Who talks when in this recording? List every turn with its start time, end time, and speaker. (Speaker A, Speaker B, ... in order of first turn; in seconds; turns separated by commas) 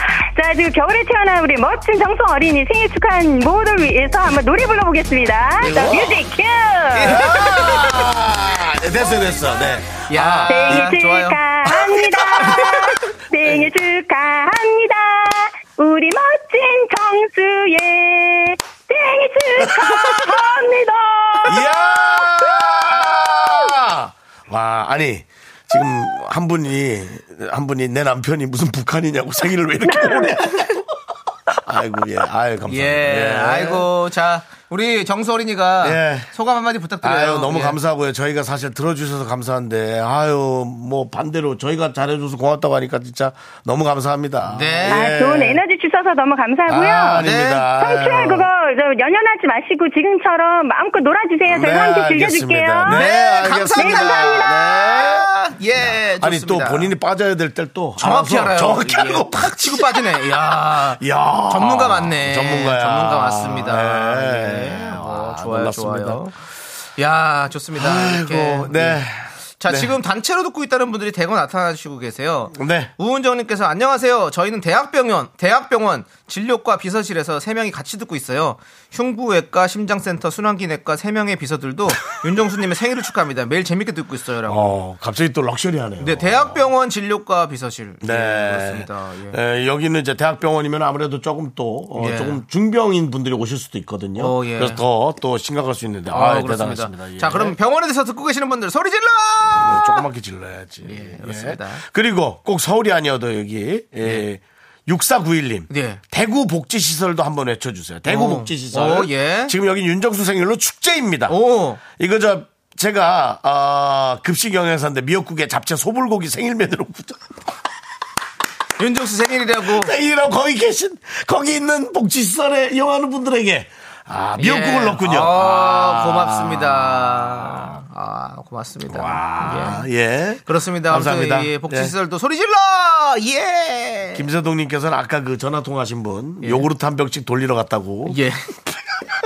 Speaker A: 0.3-7.5, Speaker B: 5.6-6.2, Speaker C: 6.9-8.0, Speaker B: 7.0-10.9, Speaker C: 10.1-11.4, Speaker A: 10.5-22.6, Speaker B: 11.8-12.7, Speaker B: 21.5-30.9, Speaker A: 29.9-30.3, Speaker B: 31.5-33.9, Speaker C: 32.7-37.8, Speaker B: 35.8-36.3, Speaker B: 37.0-45.6, Speaker C: 44.5-45.1, Speaker A: 44.9-53.1, Speaker B: 46.7-48.5, Speaker C: 47.1-47.7, Speaker B: 51.5-60.3, Speaker C: 52.8-56.9, Speaker A: 53.7-54.7, Speaker C: 58.0-66.4, Speaker B: 60.9-66.2, Speaker C: 67.0-69.0, Speaker B: 67.8-70.0, Speaker C: 69.6-84.8, Speaker B: 72.5-72.9, Speaker B: 84.5-86.6, Speaker C: 86.0-89.4, Speaker B: 88.0-97.6, Speaker C: 92.0-92.4, Speaker C: 94.2-94.8, Speaker C: 96.1-100.0, Speaker B: 99.6-111.4, Speaker C: 100.8-101.8, Speaker C: 105.7-106.0, Speaker C: 108.1-109.5, Speaker C: 111.3-111.8, Speaker B: 111.9-117.3, Speaker C: 118.8-119.9, Speaker B: 119.7-127.7, Speaker C: 124.4-129.8, Speaker B: 128.9-131.9, Speaker C: 130.5-134.2, Speaker B: 134.1-138.2, Speaker C: 136.4-136.7, Speaker C: 138.1-138.5